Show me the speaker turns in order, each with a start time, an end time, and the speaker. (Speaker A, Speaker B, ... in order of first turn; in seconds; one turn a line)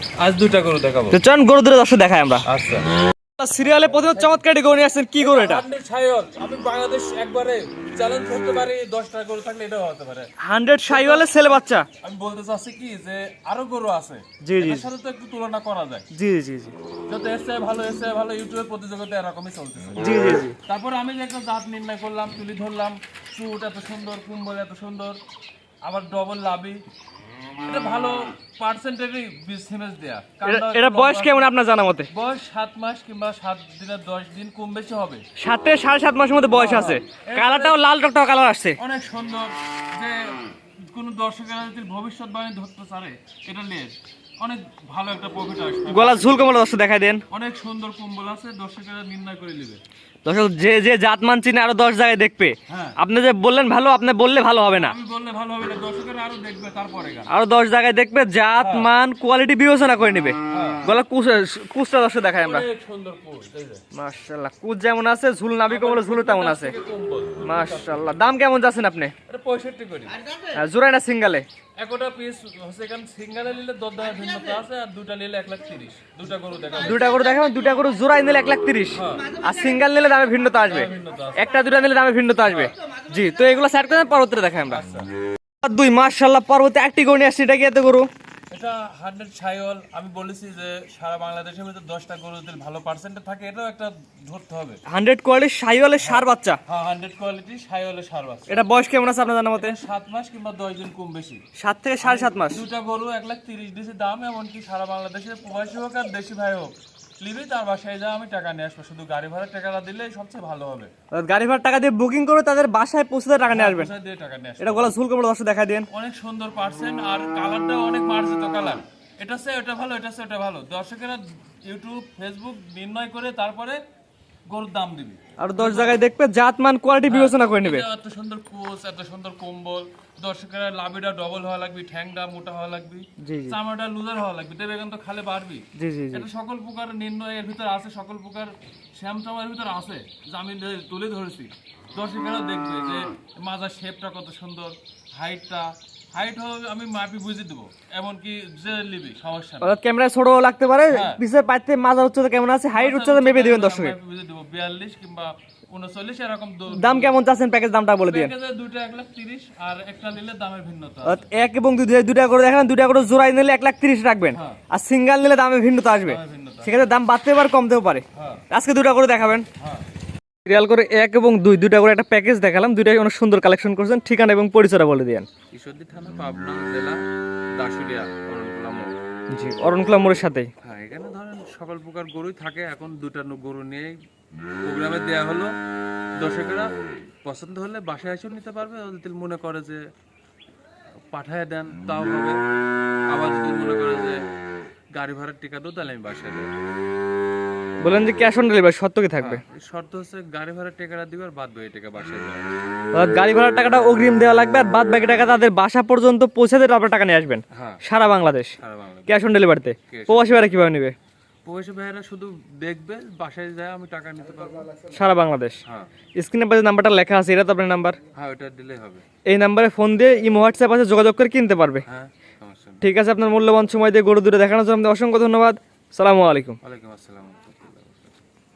Speaker A: 0.2-1.2
Speaker B: 1.1-2.5
Speaker A: 2.5-2.8
Speaker B: 3.4-5.6
Speaker A: 3.7-4.4
Speaker A: 5.2-10.3
Speaker B: 10.4-11.9
Speaker A: 10.9-16.1
Speaker B: 14.4-14.9
Speaker B: 16.1-16.8
Speaker A: 17.1-25.2
Speaker B: 20.0-20.6
Speaker A: 25.9-26.8
Speaker A: 27.6-31.5
Speaker B: 30.4-32.1
Speaker A: 32.1-35.2
Speaker B: 35.4-38.8
Speaker A: 36.5-37.8
Speaker A: 38.8-46.5
Speaker B: 45.9-47.2
Speaker A: 47.3-49.8
Speaker B: 50.2-55.0
Speaker A: 52.7-53.0
Speaker A: 54.7-57.3
Speaker B: 57.3-62.6
Speaker A: 58.6-58.9
Speaker A: 60.5-60.9
Speaker A: 62.3-63.8
Speaker B: 63.9-66.7
Speaker A: 65.7-68.2
Speaker B: 67.5-69.1
Speaker A: 69.3-70.2
Speaker B: 70.5-71.5
Speaker A: 71.8-77.2
Speaker B: 76.8-84.8
Speaker A: 78.9-79.3
Speaker A: 80.6-81.7
Speaker A: 82.4-82.7
Speaker A: 84.6-85.1
Speaker B: 85.6-88.1
Speaker A: 88.5-94.8
Speaker B: 94.9-96.6
Speaker A: 96.0-98.6
Speaker B: 98.5-99.8
Speaker A: 99.6-101.4
Speaker B: 101.6-102.6
Speaker A: 102.0-110.9
Speaker B: 111.1-113.9
Speaker A: 113.5-115.0
Speaker B: 114.6-115.9
Speaker A: 115.9-123.8
Speaker A: 124.5-126.0
Speaker B: 125.4-127.8
Speaker A: 127.1-149.8
Speaker B: 133.2-133.6
Speaker B: 135.8-136.2
Speaker B: 149.6-153.9
Speaker A: 150.9-151.2
Speaker A: 152.7-157.2
Speaker B: 156.7-158.3
Speaker A: 158.1-161.3
Speaker B: 161.0-169.5
Speaker A: 164.3-164.6
Speaker A: 166.1-166.8
Speaker A: 168.2-168.4
Speaker A: 169.6-169.9
Speaker B: 170.4-175.3
Speaker A: 175.5-177.0
Speaker A: 177.6-179.0
Speaker B: 179.3-180.5
Speaker A: 180.6-183.9
Speaker A: 184.7-185.5
Speaker A: 186.2-186.7
Speaker A: 187.2-189.8
Speaker A: 191.1-192.4
Speaker A: 193.1-194.2
Speaker A: 195.0-196.5
Speaker B: 197.8-199.4
Speaker A: 199.2-202.4
Speaker B: 202.9-208.6
Speaker A: 205.0-205.3
Speaker A: 207.5-207.8
Speaker A: 208.6-209.3
Speaker B: 209.1-210.9
Speaker A: 209.9-210.7
Speaker A: 211.4-214.8
Speaker B: 214.9-215.6
Speaker B: 216.2-218.0
Speaker A: 218.2-219.1
Speaker B: 219.3-221.8
Speaker A: 221.9-222.9
Speaker B: 222.8-226.6
Speaker A: 226.6-228.1